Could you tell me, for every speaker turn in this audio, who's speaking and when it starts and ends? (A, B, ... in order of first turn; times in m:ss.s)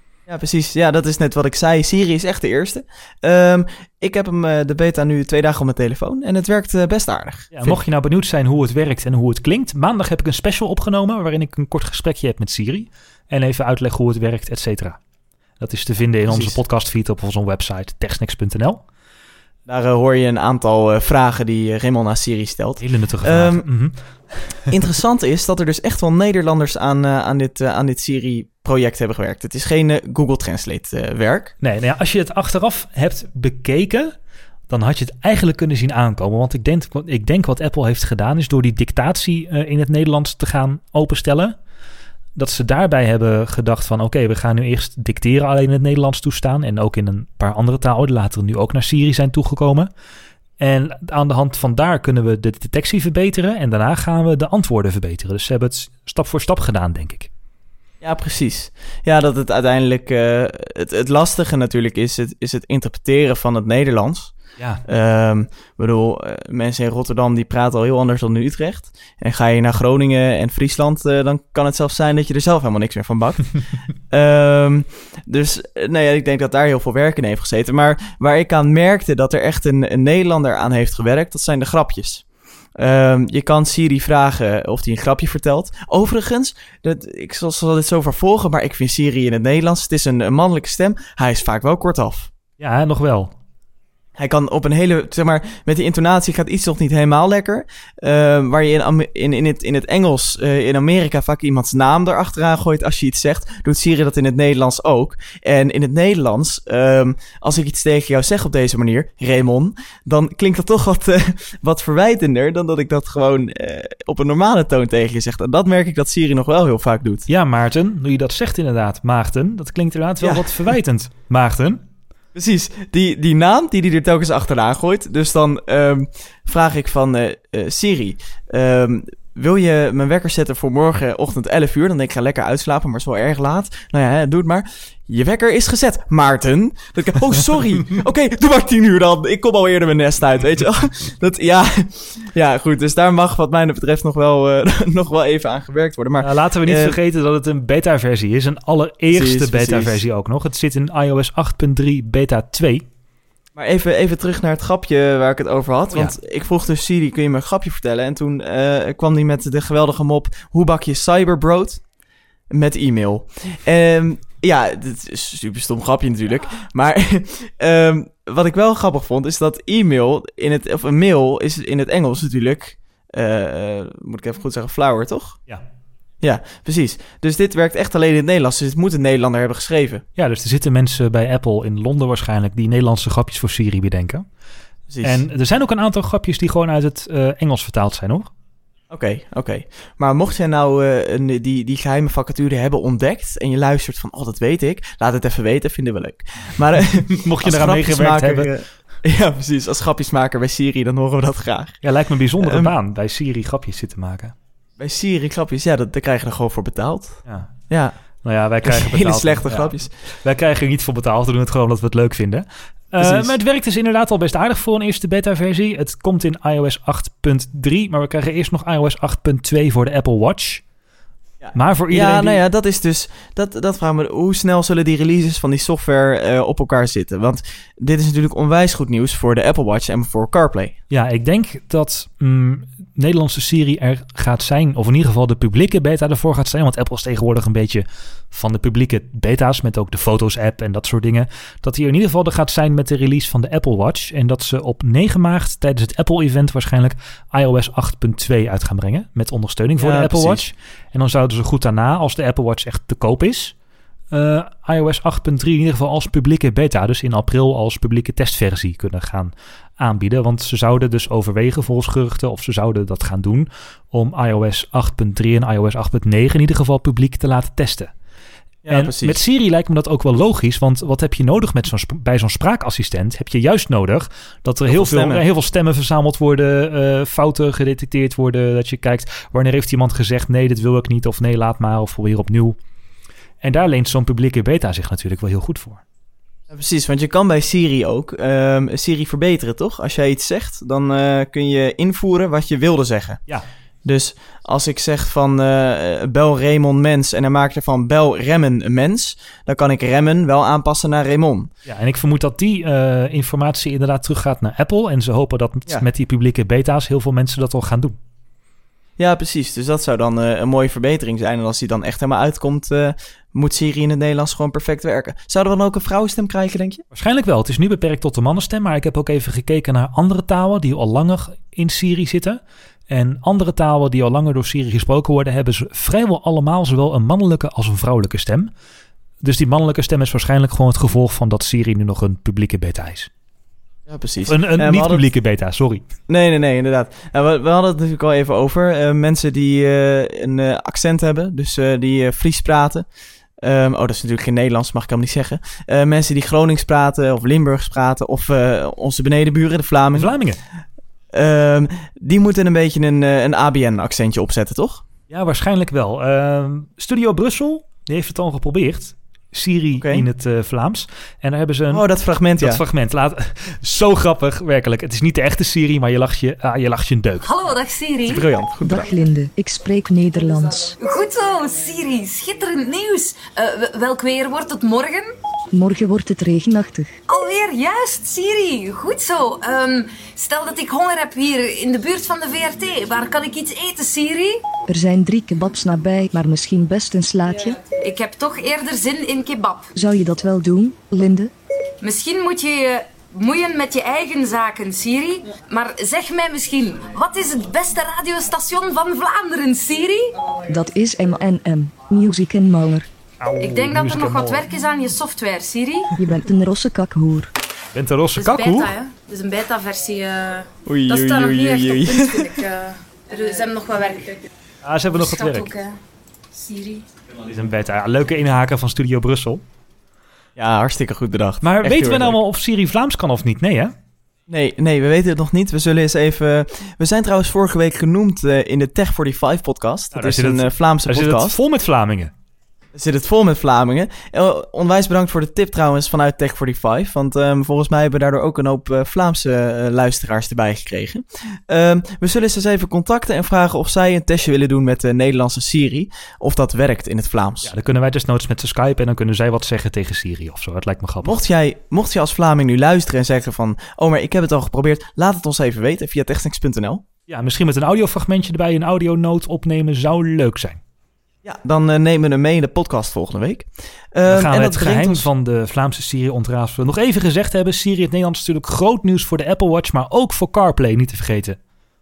0:00.3-0:07.8 A
0:07.5-0:15.0 B
0:15.6-0:18.8 B
0:16.3-0:16.6 A
0:19.7-0:23.7 A
0:22.8-0:24.7 B
0:24.7-0:31.6 A
0:31.6-0:34.2 B
0:34.7-0:41.6 B
0:42.4-0:49.9 B
0:50.6-0:57.3 B
0:58.0-1:22.2 A
1:04.6-1:04.8 B
1:22.8-1:32.3 A
1:32.6-1:33.3 B
1:34.2-1:57.3 A
1:57.3-2:01.8 B
2:00.2-2:00.7 A
2:02.4-2:27.0 A
2:26.2-2:32.9 B
2:29.1-2:30.0 A
2:33.6-2:41.8 A
2:42.5-2:55.4 A
2:56.2-3:00.0 A
3:00.2-3:04.2 B
3:04.9-3:05.2 A
3:05.0-3:08.3 B
3:08.9-3:21.8 A
3:17.1-3:18.5 B
3:21.8-3:24.3 B
3:22.4-3:22.7 A
3:24.8-3:28.0 A
3:27.3-3:27.6 B
3:28.2-3:40.6 B
3:28.6-3:29.9 A
3:33.0-3:33.4 A
3:41.4-3:50.8 A
3:41.5-3:42.4 B
3:50.9-4:13.5 B
4:09.8-4:10.4 A
4:14.1-4:27.9 B
4:28.6-4:29.2 A
4:28.7-4:42.6 B
4:34.7-4:35.2 A
4:43.4-4:45.8 B
4:46.5-4:53.2 A
4:53.8-5:01.5 A
5:01.6-5:08.0 B
5:09.0-5:16.8 A
5:16.9-5:28.5 B
5:29.2-5:33.1 B
5:33.9-5:35.0 A
5:34.2-5:35.8 B
5:36.1-5:42.8 A
5:43.4-5:50.1 A
5:50.0-5:50.4 B
5:51.1-5:54.8 A
5:55.1-6:07.4 B
5:59.8-6:00.1 A
6:01.7-6:02.6 A
6:07.2-6:08.3 C
6:08.1-6:08.9 A
6:08.6-6:10.7 D
6:10.8-6:15.1 C
6:15.5-6:17.0 D
6:17.1-6:24.5 C
6:24.7-6:27.6 D
6:27.7-6:29.7 C
6:29.8-6:31.3 D
6:31.8-6:40.2 C
6:40.5-6:42.9 D
6:43.2-6:44.5 B
6:43.4-6:45.9 C
6:46.0-6:47.3 D
6:47.7-6:48.7 B
6:48.2-6:54.3 C
6:50.6-6:52.4 A
6:54.6-6:55.5 B
6:54.9-6:55.8 C
6:56.3-6:56.8 C
6:57.2-6:59.4 B
7:00.4-7:02.2 A
7:01.4-7:03.8 B
7:04.3-7:11.4 A
7:09.9-7:12.1 B
7:12.8-7:27.5 A
7:27.4-7:31.2 B
7:31.0-7:36.8 A
7:37.1-7:40.6 B
7:41.2-7:45.1 A
7:44.1-7:51.4 B